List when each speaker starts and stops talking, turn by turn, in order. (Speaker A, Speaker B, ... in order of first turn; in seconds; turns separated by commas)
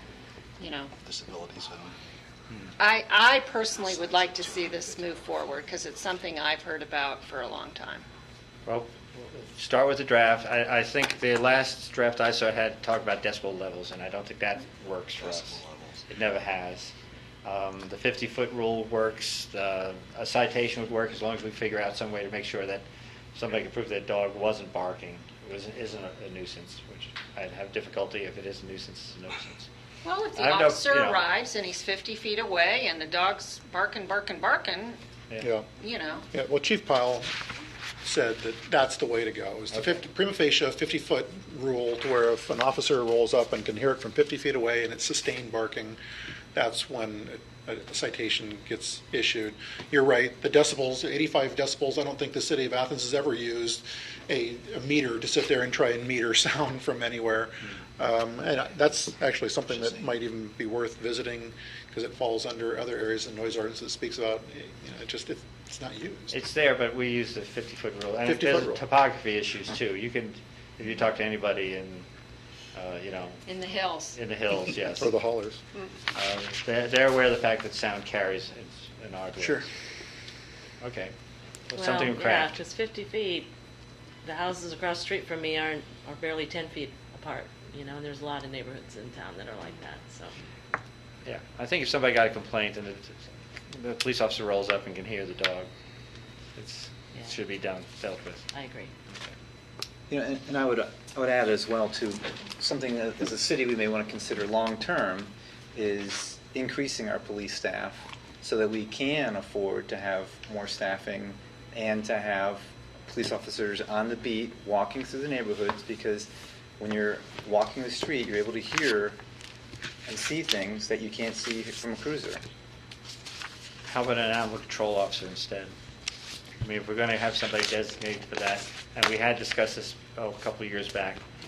Speaker A: 0.6-0.9, Speaker B: 1.0-2.0, Speaker A: 2.8-8.0, Speaker B: 3.7-5.6, Speaker C: 8.7-16.9, Speaker B: 15.2-16.1, Speaker C: 17.4-29.7, Speaker A: 30.0-35.0, Speaker C: 30.4-31.2, Speaker D: 35.4-35.7, Speaker A: 35.8-36.3, Speaker D: 36.3-37.3, Speaker D: 38.0-46.0, Speaker C: 39.7-40.0, Speaker D: 46.5-66.4, Speaker B: 59.7-60.1, Speaker C: 66.3-72.1, Speaker D: 68.2-68.8, Speaker C: 72.7-73.5, Speaker A: 73.5-74.2, Speaker C: 74.1-75.2, Speaker D: 75.0-75.6, Speaker C: 76.1-79.6, Speaker D: 79.4-79.7, Speaker C: 80.8-81.1, Speaker C: 81.7-82.6, Speaker E: 81.7-83.5, Speaker E: 84.2-90.3, Speaker C: 91.2-93.2, Speaker C: 93.7-95.7, Speaker C: 96.6-98.5, Speaker E: 98.5-98.9, Speaker C: 99.1-99.3, Speaker F: 100.1-119.2, Speaker F: 120.1-122.4, Speaker C: 123.9-125.7, Speaker C: 126.6-131.2